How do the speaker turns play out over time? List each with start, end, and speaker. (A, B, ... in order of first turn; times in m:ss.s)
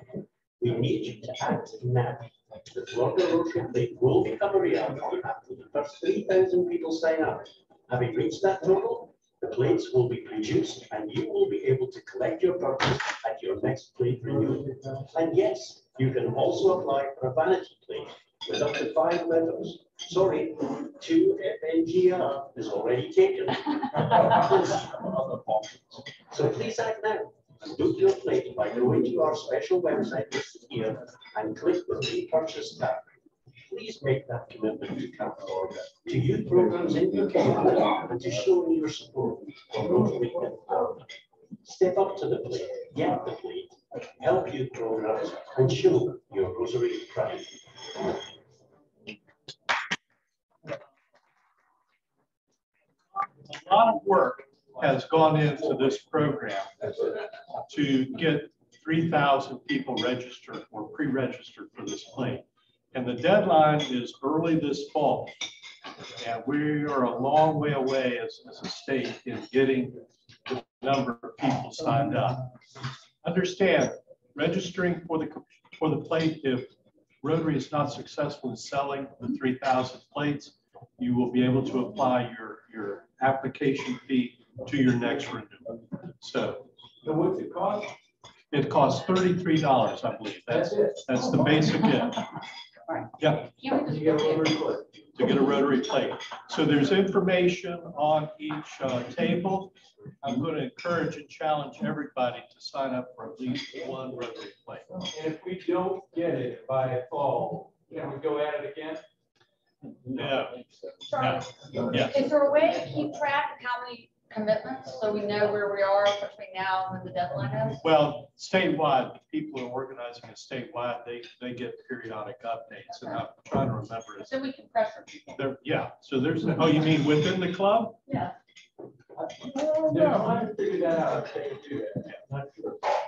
0:00.6-0:25.0 A
0:26.3-0:33.1 A
0:33.6-0:41.1 A
0:41.6-0:48.2 A
0:53.4-0:57.0 B
0:57.7-1:05.4 B
1:06.2-1:12.4 B
1:13.2-1:16.7 B
1:17.2-1:26.6 B
1:27.1-1:27.8 C
1:28.5-1:32.2 B
1:30.5-1:31.0 C
1:32.9-1:34.5 D
1:33.2-1:33.5 B
1:35.2-1:44.9 B
1:45.1-1:49.0 C
1:50.1-1:50.6 B
1:51.1-1:57.8 D
1:57.8-2:04.4 B
2:04.2-2:05.4 D
2:05.4-2:08.0 B
2:08.1-2:08.3 D
2:09.8-2:10.3 B
2:10.1-2:11.8 C